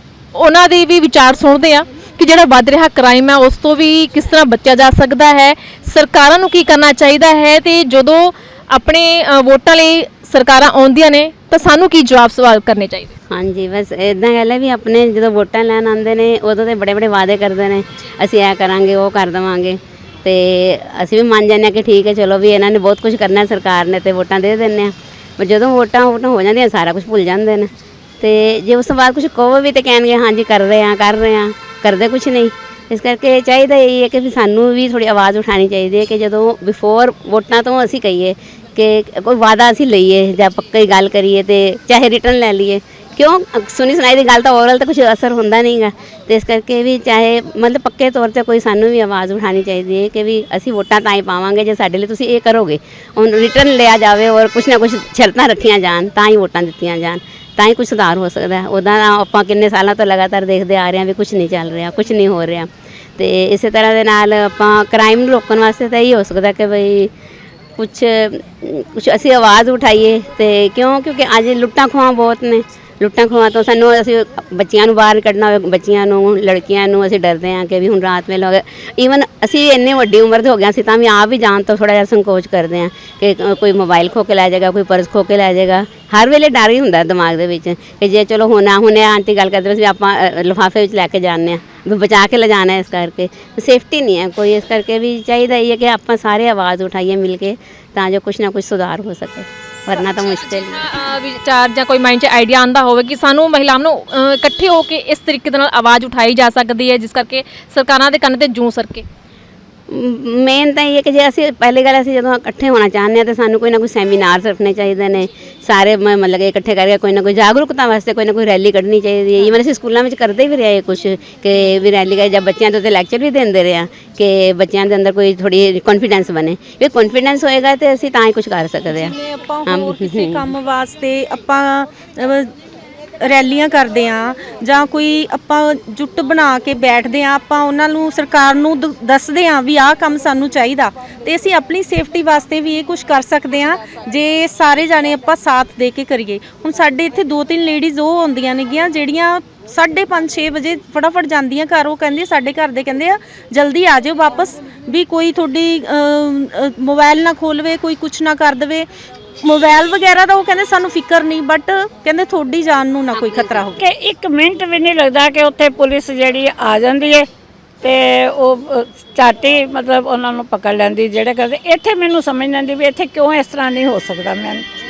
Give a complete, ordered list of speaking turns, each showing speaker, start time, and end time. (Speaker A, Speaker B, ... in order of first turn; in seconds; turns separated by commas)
Speaker A: 0.3-13.2, Speaker B: 13.3-27.7, Speaker B: 28.2-67.1, Speaker B: 67.8-100.9, Speaker A: 100.0-109.0, Speaker B: 109.9-129.1, Speaker C: 128.9-132.5, Speaker B: 129.7-130.5, Speaker C: 133.2-158.9, Speaker C: 159.4-163.8, Speaker B: 163.1-163.6, Speaker D: 163.8-167.3, Speaker D: 167.8-174.7